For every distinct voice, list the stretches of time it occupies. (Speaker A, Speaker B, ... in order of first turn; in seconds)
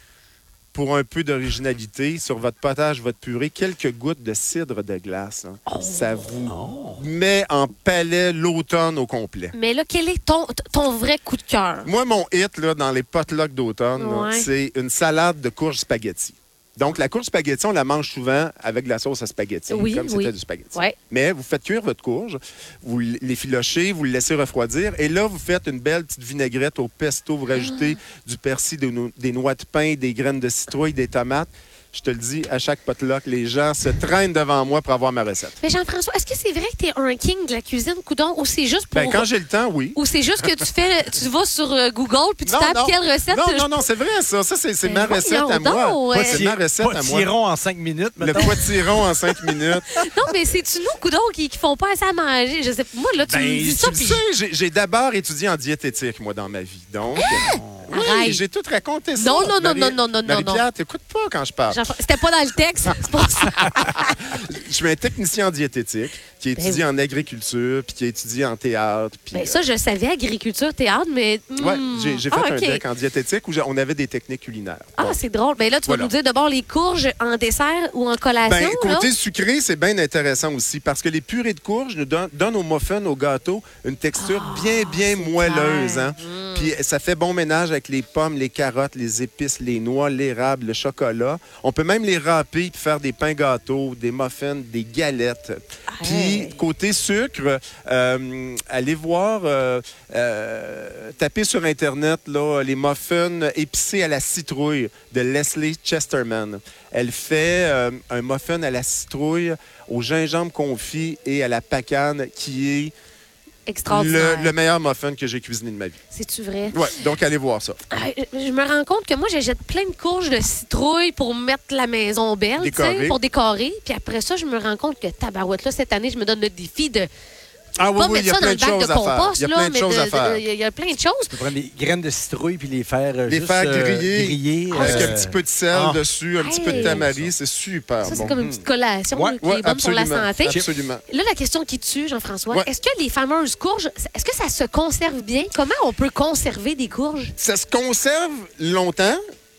Speaker A: 0.7-9.5, 11.8-35.6, 38.9-40.6, 42.4-47.3, 48.2-49.9, 53.8-61.8, 62.9-69.6, 71.6-75.2, 75.8-76.1, 78.4-112.9, 113.9-116.0, 116.7-117.8, 122.6-123.2, 127.8-130.4, 133.2-138.3, 139.4-141.0, 147.4-149.2
Speaker B: 5.7-6.4, 9.5-11.9, 14.0-14.5, 19.7-20.9, 27.5-27.9, 35.6-39.3, 39.9-43.8, 44.8-46.4, 49.9-54.2, 57.2-58.4, 59.2-60.6, 61.7-64.2, 66.6-66.8, 69.3-72.8, 75.0-79.1, 84.2-86.7, 95.9-96.5, 113.7-114.5, 116.1-116.9, 117.9-127.1, 127.9-131.4, 134.7-135.2, 136.4-137.0, 138.0-147.3
Speaker C: 6.5-7.0, 46.1-49.4, 53.3-54.0, 57.3-57.9, 131.3-136.0, 136.7-137.3, 138.1-139.4